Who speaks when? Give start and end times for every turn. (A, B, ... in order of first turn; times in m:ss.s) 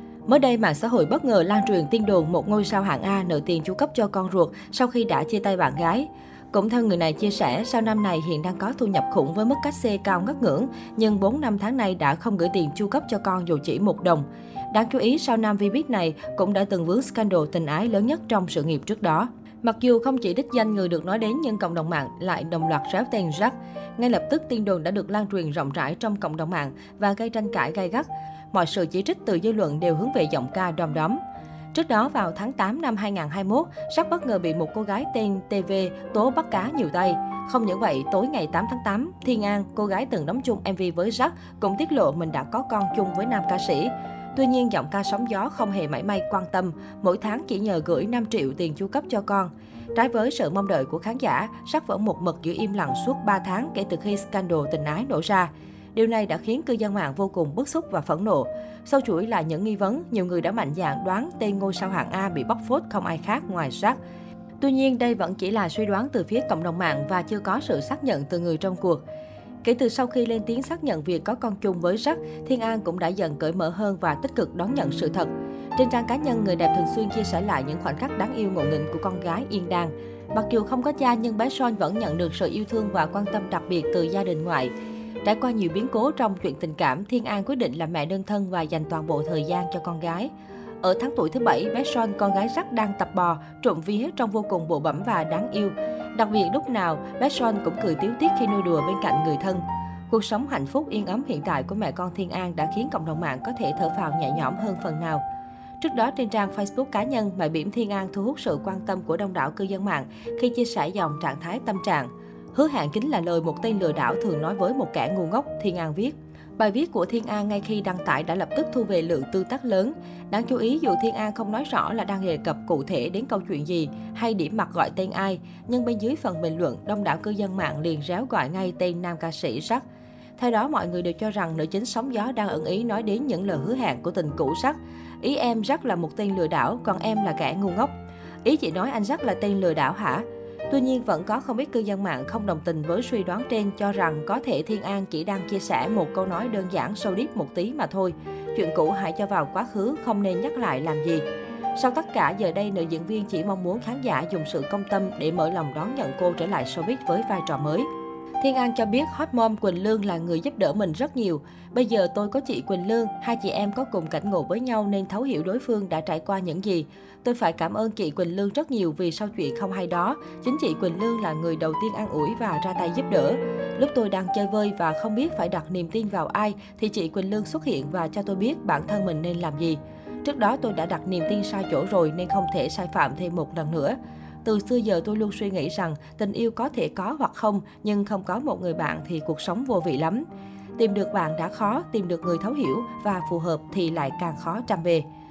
0:00.3-0:31.2 A
0:31.7-1:04.0 A
1:04.6-1:09.0 A
1:09.6-1:24.7 A
1:25.2-1:30.3 A
1:30.8-1:45.2 A
1:45.8-2:09.8 A
2:10.4-2:17.9 A
2:18.4-2:37.9 A
2:38.4-3:10.2 A
3:10.8-3:15.0 A